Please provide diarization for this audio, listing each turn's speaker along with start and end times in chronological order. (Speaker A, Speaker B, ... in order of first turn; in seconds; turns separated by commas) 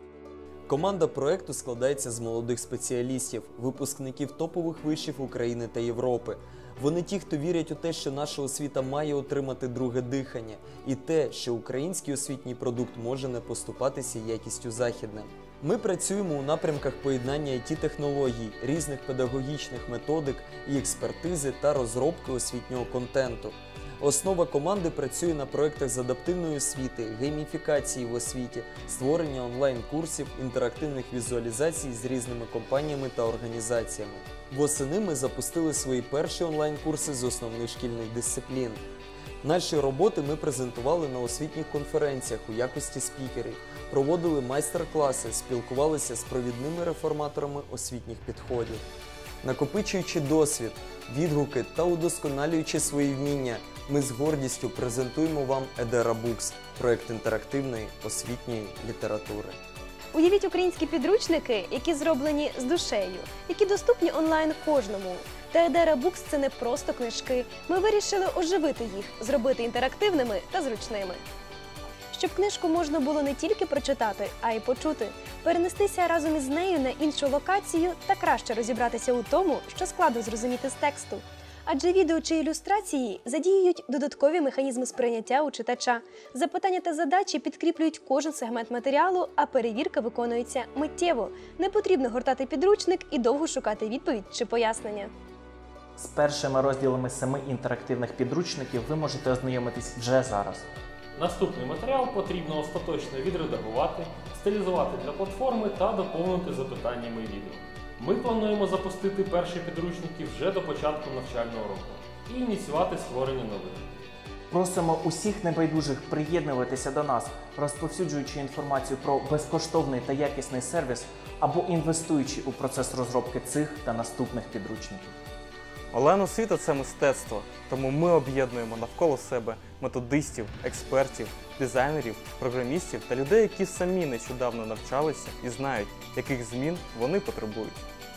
Speaker A: 0.7-38.8, Speaker A: 39.4-48.8, Speaker A: 49.4-59.5, Speaker B: 60.1-71.2, Speaker B: 72.1-95.1, Speaker C: 96.0-100.7, Speaker D: 101.2-113.8, Speaker C: 114.5-125.1, Speaker E: 125.9-137.8